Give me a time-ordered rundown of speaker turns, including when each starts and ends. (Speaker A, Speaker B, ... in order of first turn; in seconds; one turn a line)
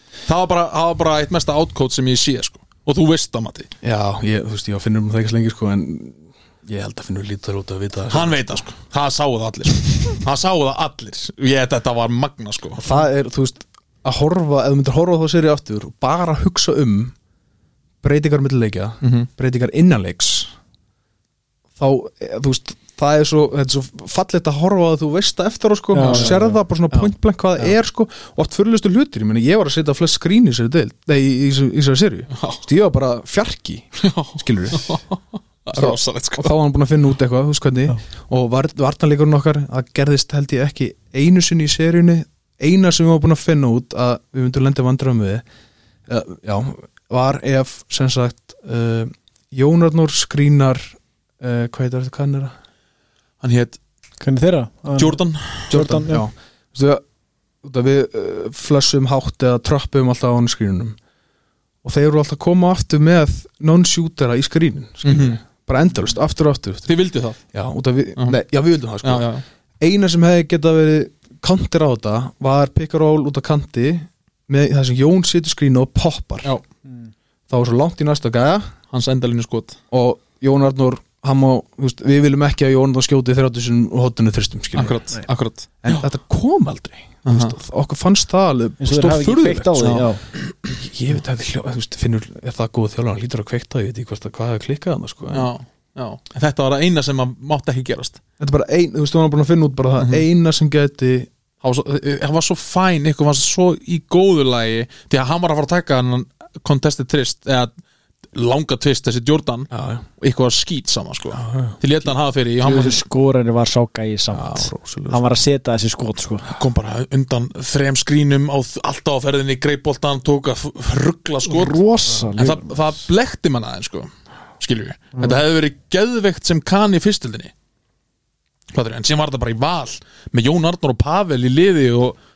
Speaker A: 0.3-3.7
Speaker B: 3.8-8.6
Speaker A: 8.1-12.8
Speaker B: 12.8-17.1
Speaker B: 18.0-20.6
Speaker A: 19.0-19.3
Speaker B: 21.8-35.0
Speaker C: 25.9-27.0
Speaker A: 26.0-26.4
Speaker A: 32.4-32.6
Speaker A: 34.0-36.5
Speaker B: 35.7-45.4
Speaker B: 46.1-52.5
Speaker A: 53.4-53.8
Speaker C: 54.2-56.3
Speaker A: 55.0-55.8
Speaker B: 55.7-57.0
Speaker B: 57.6-61.0
Speaker B: 61.8-66.9
Speaker A: 65.0-65.4
Speaker A: 66.9-67.4
Speaker B: 67.5-69.3
Speaker A: 69.0-69.4
Speaker B: 69.8-76.5
Speaker B: 77.5-78.7
Speaker A: 78.9-79.8
Speaker B: 79.9-85.0
Speaker A: 84.8-86.0
Speaker B: 85.8-90.0
Speaker A: 87.2-87.5
Speaker C: 88.8-90.2
Speaker A: 89.8-90.1
Speaker B: 90.6-95.5
Speaker A: 95.3-98.2
Speaker B: 98.4-101.3
Speaker A: 100.0-100.2
Speaker A: 101.6-107.7
Speaker A: 108.3-113.0
Speaker B: 109.7-110.0
Speaker B: 111.3-111.8
Speaker C: 112.6-116.5
Speaker B: 114.3-115.3
Speaker A: 116.5-121.8
Speaker C: 121.5-122.8
Speaker A: 122.4-124.1
Speaker A: 124.6-127.5
Speaker A: 128.7-132.2